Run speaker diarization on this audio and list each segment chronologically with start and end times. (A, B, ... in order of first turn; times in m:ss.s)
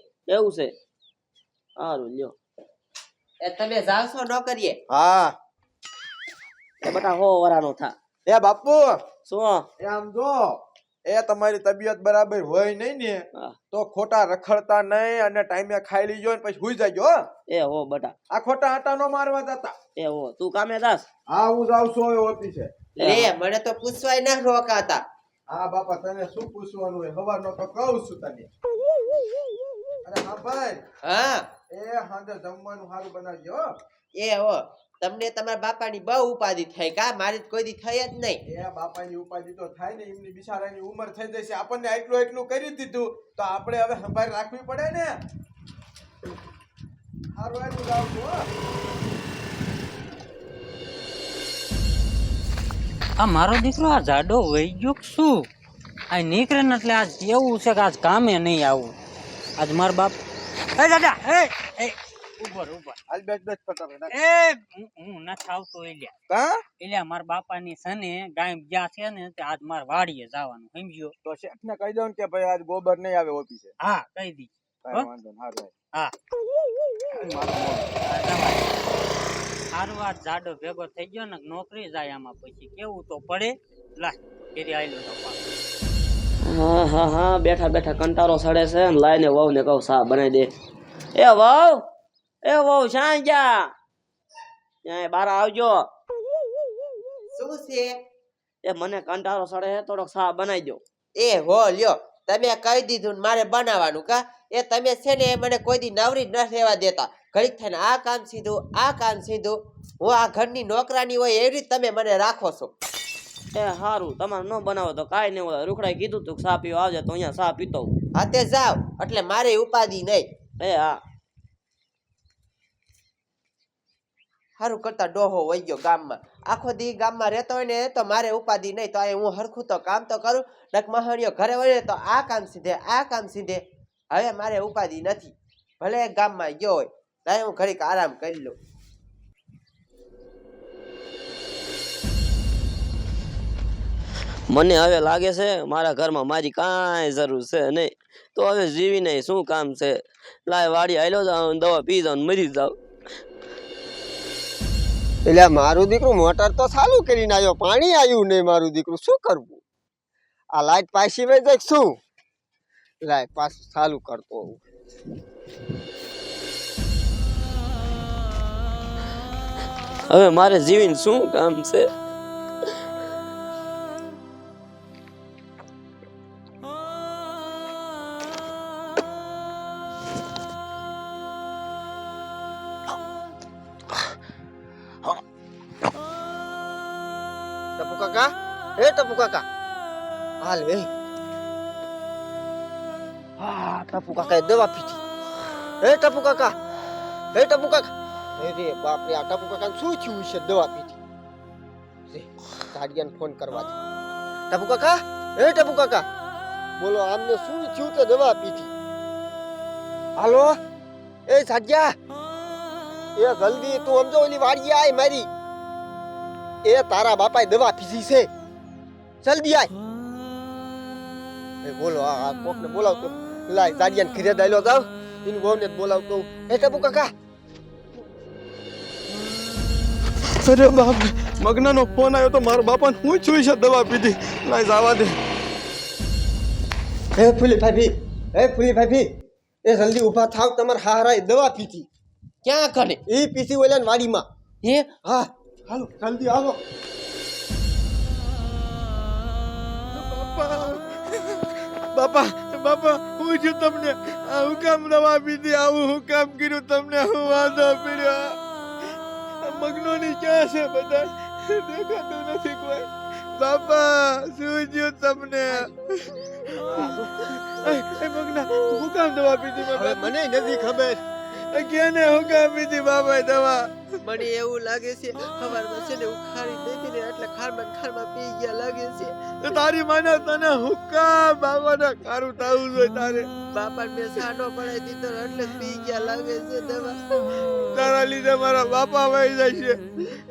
0:00.3-0:00.7 A
0:01.8-0:02.3 A
0:03.4-0:04.8 B
0:04.9-0:05.4 C
0:06.8-0:07.9 A
0:08.3-0:09.0 C
0:09.3-0:09.7 A
0:09.8-0:17.2 C
0:17.5-0:18.1 A
0:18.3-0:19.7 C
0:20.0-0:21.1 A
0:21.3-0:22.7 C
0:23.0-0:23.3 A
0:23.0-0:25.0 B
0:25.5-0:28.5 C
0:30.0-0:30.8 C
0:31.0-0:31.5 B
0:31.7-0:33.7 C
0:34.2-0:38.4 B
0:38.4-0:45.2 C
0:47.3-0:48.4 C
0:53.2-0:55.5 D
0:56.1-0:58.9 D
0:59.6-1:00.1 D
1:00.8-1:03.0 D
1:03.1-1:04.2 C
1:04.1-1:06.1 D
1:06.3-1:06.6 C
1:06.8-1:11.1 D
1:11.2-1:13.7 C
1:13.8-1:15.1 D
1:14.8-1:15.7 C
1:17.1-1:17.9 C
1:18.0-1:18.8 D
1:19.7-1:25.4 D
1:26.4-1:30.5 A
1:31.2-1:31.8 A
1:32.4-1:33.7 A
1:34.8-1:35.9 A
1:37.3-1:37.9 B
1:38.6-1:40.8 A
1:41.2-1:52.7 B
1:53.5-1:57.9 A
1:58.2-2:00.2 B
2:00.6-2:01.0 A
2:04.6-2:18.6 B
2:24.5-2:32.8 A
2:35.3-2:39.6 E
2:40.5-2:42.0 E
2:43.0-2:44.6 E
2:50.1-2:51.9 A
3:07.8-3:09.5 E
3:10.4-3:10.9 E
3:13.4-3:15.0 E
3:15.8-3:16.6 E
3:17.3-3:21.0 E
3:22.1-3:23.8 E
3:24.5-3:26.1 E
3:26.8-3:28.7 E
3:30.2-3:30.6 E
3:31.3-3:32.0 E
3:33.2-3:35.3 E
3:36.6-3:38.3 E
3:39.2-3:39.7 E
3:41.6-3:47.1 E
3:50.3-3:55.2 C
3:57.2-3:59.1 E
3:59.6-4:01.9 E
4:02.4-4:03.0 B
4:03.1-4:04.2 E
4:04.6-4:04.9 B
4:05.0-4:06.6 E
4:09.9-4:18.4 C
4:19.4-4:30.5 C
4:29.7-4:31.0 E
4:31.4-4:33.7 C
4:34.0-4:39.4 B
4:39.4-4:43.3 C
4:43.5-4:47.0 B
4:47.7-4:49.8 C